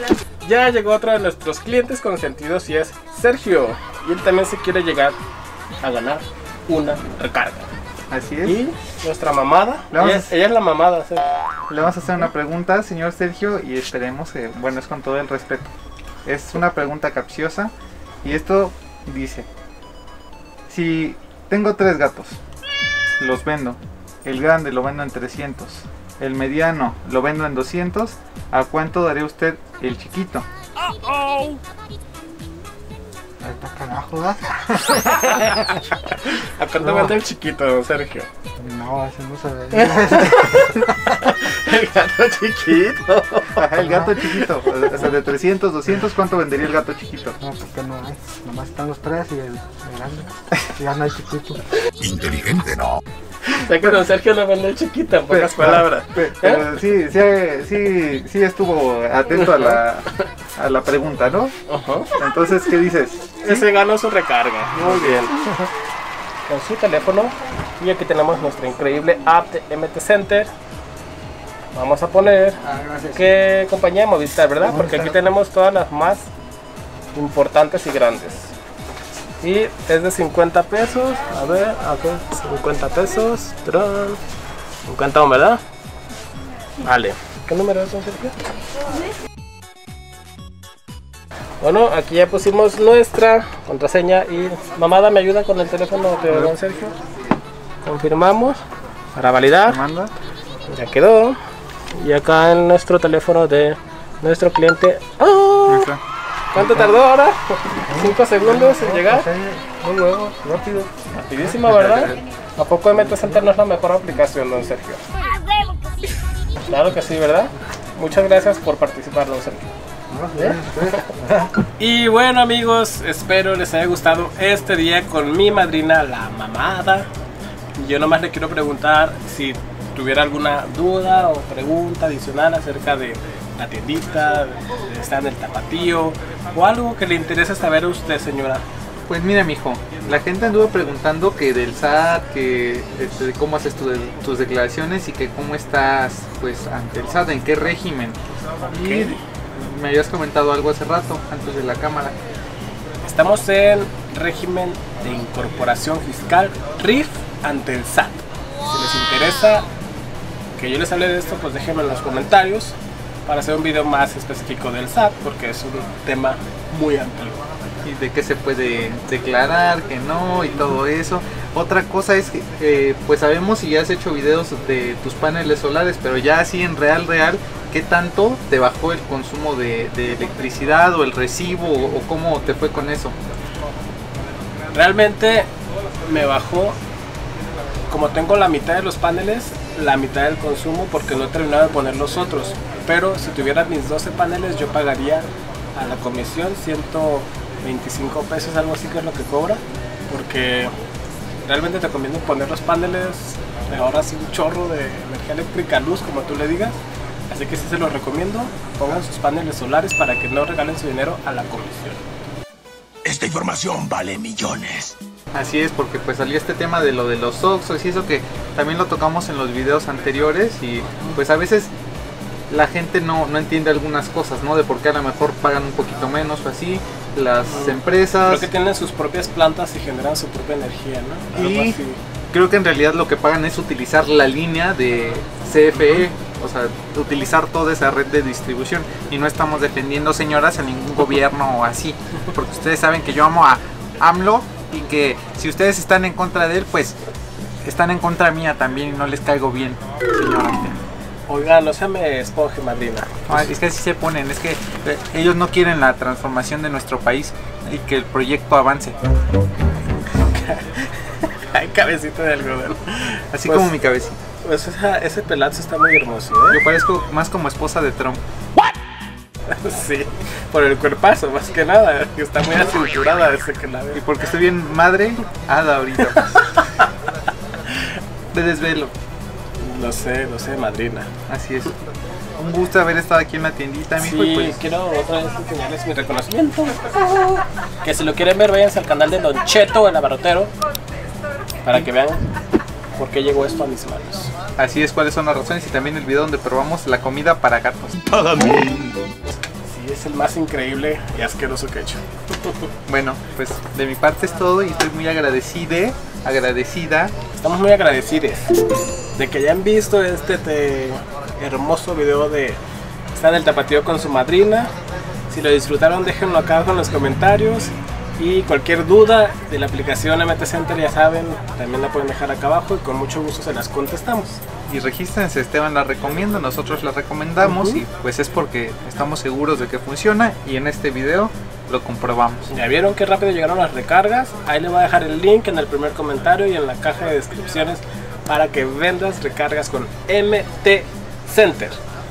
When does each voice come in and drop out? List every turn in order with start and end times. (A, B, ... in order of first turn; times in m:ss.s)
0:00.4-0:05.2 A
0:05.8-0:07.7 A
0:08.1-0:08.6 B
0:08.4-0:11.2 A
0:09.9-0:10.3 B
0:11.7-0:15.7 B
0:16.2-0:17.7 B
0:18.2-0:19.5 B
0:20.7-0:22.4 B
0:23.2-0:30.5 B
0:33.4-0:34.7 C
0:34.8-0:38.3 A
0:38.6-0:40.8 C
0:39.7-0:44.6 A
0:43.5-0:47.4 B
0:43.8-0:44.2 C
0:47.4-0:51.6 C
0:52.0-0:53.0 D
0:53.5-0:56.7 A
0:55.3-1:01.5 B
0:59.4-0:59.8 A
1:01.7-1:02.1 A
1:02.2-1:03.6 B
1:03.4-1:05.7 A
1:04.8-1:05.3 B
1:06.4-1:10.5 A
1:11.7-1:12.6 A
1:12.7-1:13.1 B
1:13.1-1:16.3 A
1:17.1-1:18.5 A
1:19.4-1:24.2 A
1:24.8-1:25.6 A
1:26.8-1:28.3 A
1:31.6-1:36.9 A
1:36.3-1:36.5 B
1:37.8-1:38.6 A
1:39.2-1:39.8 A
1:39.7-1:40.1 B
1:40.7-1:41.4 A
1:41.9-1:45.9 A
1:45.7-1:46.0 B
1:46.5-1:49.3 A
1:47.9-1:50.9 C
1:51.1-1:55.0 A
1:51.7-1:52.2 B
1:56.7-1:59.7 A
2:00.1-2:01.4 C
2:00.4-2:00.9 A
2:01.6-2:07.1 A
2:07.8-2:18.6 A
2:19.1-2:32.2 B
2:28.6-2:29.2 A
2:33.0-2:39.7 A
2:40.6-2:42.8 A
2:43.3-2:47.5 A
2:47.8-3:03.2 B
3:04.7-3:05.5 A
3:06.0-3:06.8 A
3:07.9-3:20.7 A
3:21.4-3:32.0 A
3:33.0-3:35.0 D
3:35.3-3:41.7 B
3:42.5-3:48.5 B
3:47.5-3:52.0 A
3:51.3-3:51.8 B
3:52.3-4:07.0 B
3:55.8-3:56.0 A
4:07.6-4:10.8 B
4:11.3-4:13.4 A
4:13.3-4:19.0 B
4:20.0-4:23.7 A
4:23.3-4:24.2 B
4:24.4-4:26.6 A
4:26.5-4:28.2 B
4:29.5-4:34.0 A
4:33.9-4:36.6 B
4:36.3-4:36.7 A
4:38.3-4:38.9 B
4:39.6-4:41.1 A
4:41.3-4:41.8 B
4:42.4-4:44.6 B
4:44.0-4:47.1 A
4:47.8-4:50.5 A
4:51.6-4:52.3 A
4:53.0-4:54.3 A
4:54.6-4:58.0 B
4:58.1-4:59.0 D
4:59.5-5:02.7 A
5:02.9-5:07.1 B
5:07.4-5:08.5 A
5:09.2-5:12.6 A
5:13.1-5:14.7 A
5:15.3-5:24.4 A
5:24.7-5:32.5 B
5:27.4-5:27.8 A
5:32.5-5:41.8 A